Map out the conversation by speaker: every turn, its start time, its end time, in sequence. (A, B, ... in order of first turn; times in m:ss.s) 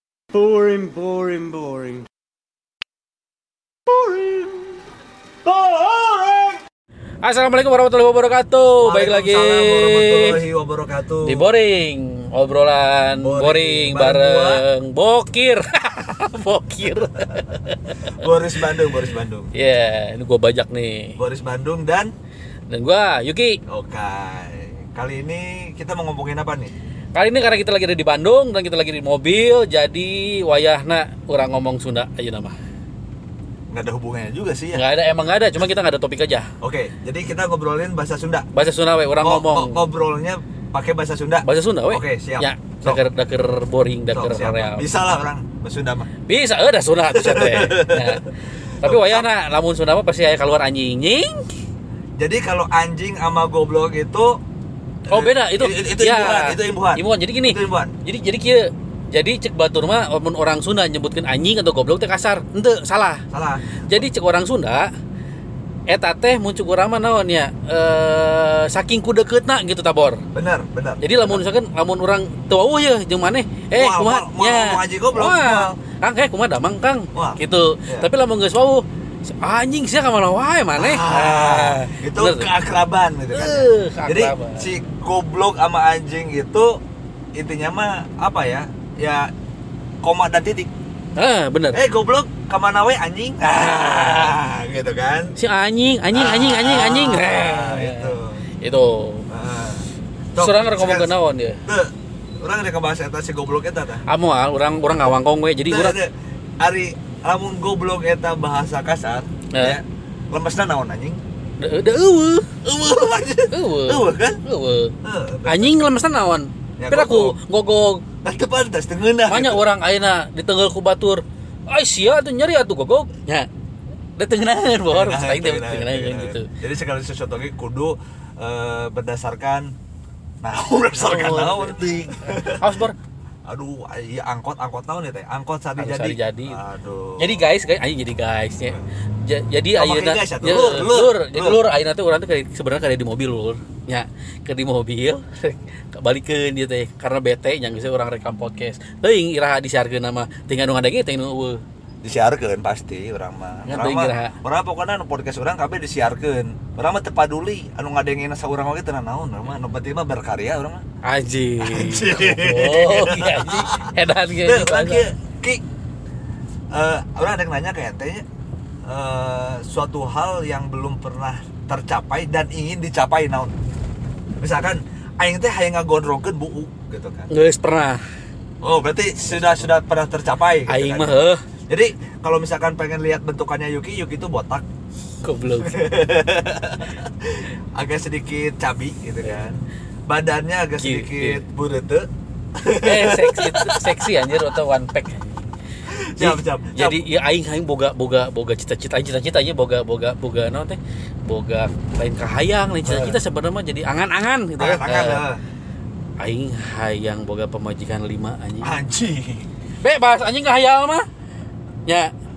0:00.3-0:02.0 A
0:03.9-0:04.7 A
0:05.4-0:06.6 A
0:07.2-0:10.4 B
0:08.8-0:11.5 C
0:11.2-0:18.2 B
0:13.2-0:14.6 C
0:16.9-0:17.5 C
0:18.1-0:19.5 C
0:19.5-0:21.2 B
0:21.2-0:22.1 C
0:22.7-0:23.6 B
0:23.7-0:26.7 C
0:27.1-0:32.6 B
0:33.7-0:34.8 C
0:34.7-0:36.5 B
0:36.6-0:38.5 C
0:38.5-0:39.8 B
0:39.2-0:43.0 C
0:41.4-0:44.8 B
0:44.1-0:46.1 C
0:46.3-0:48.3 B
0:47.1-0:48.3 C
0:48.8-0:51.5 B
0:48.8-0:49.3 C
0:52.2-0:54.4 C
0:55.1-1:03.2 B
0:55.1-0:57.9 C
1:03.3-1:04.0 C
1:03.8-1:04.9 B
1:05.9-1:10.2 B
1:10.3-1:11.4 C
1:11.0-1:22.5 B
1:13.7-1:15.8 C
1:17.1-1:18.1 C
1:20.8-1:26.8 C
1:23.3-1:24.7 B
1:27.3-1:29.3 C
1:30.0-1:30.7 C
1:31.2-1:31.8 B
1:31.7-1:35.4 C
1:33.5-1:34.3 B
1:35.4-1:39.2 B
1:36.1-1:38.4 C
1:39.3-1:41.1 C
1:40.4-1:41.6 B
1:41.7-1:44.0 C
1:44.1-1:46.0 B
1:45.7-1:51.2 C
1:49.5-1:49.8 B
1:51.6-1:52.6 B
1:52.6-1:54.4 C
1:53.5-1:55.0 B
1:55.0-1:55.8 C
1:55.5-1:58.0 B
1:56.8-1:57.4 C
1:58.2-1:59.6 C
1:59.2-2:03.5 B
2:04.2-2:06.5 B
2:04.9-2:09.7 C
2:10.4-2:12.8 C
2:10.9-2:13.0 B
2:13.5-2:17.4 C
2:15.8-2:16.6 B
2:17.2-2:31.6 B
2:19.8-2:21.6 C
2:32.0-2:40.8 C
2:33.7-2:34.4 B
2:41.0-2:45.1 B
2:41.6-2:45.6 C
2:46.7-2:48.2 C
2:48.8-2:53.5 C
2:54.4-2:57.3 C
2:57.3-2:58.0 B
2:58.6-3:01.2 C
2:59.3-2:59.7 B
3:00.7-3:01.4 B
3:01.7-3:04.6 C
3:05.2-3:05.9 B
3:05.6-3:13.8 C
3:09.2-3:09.5 B
3:10.8-3:11.4 B
3:12.8-3:15.5 B
3:15.9-3:17.1 C
3:16.2-3:25.2 B
3:22.8-3:23.2 C
3:24.6-3:25.4 C
3:26.2-3:28.8 B
3:28.6-3:29.5 C
3:29.8-3:31.1 B
3:31.8-3:32.1 B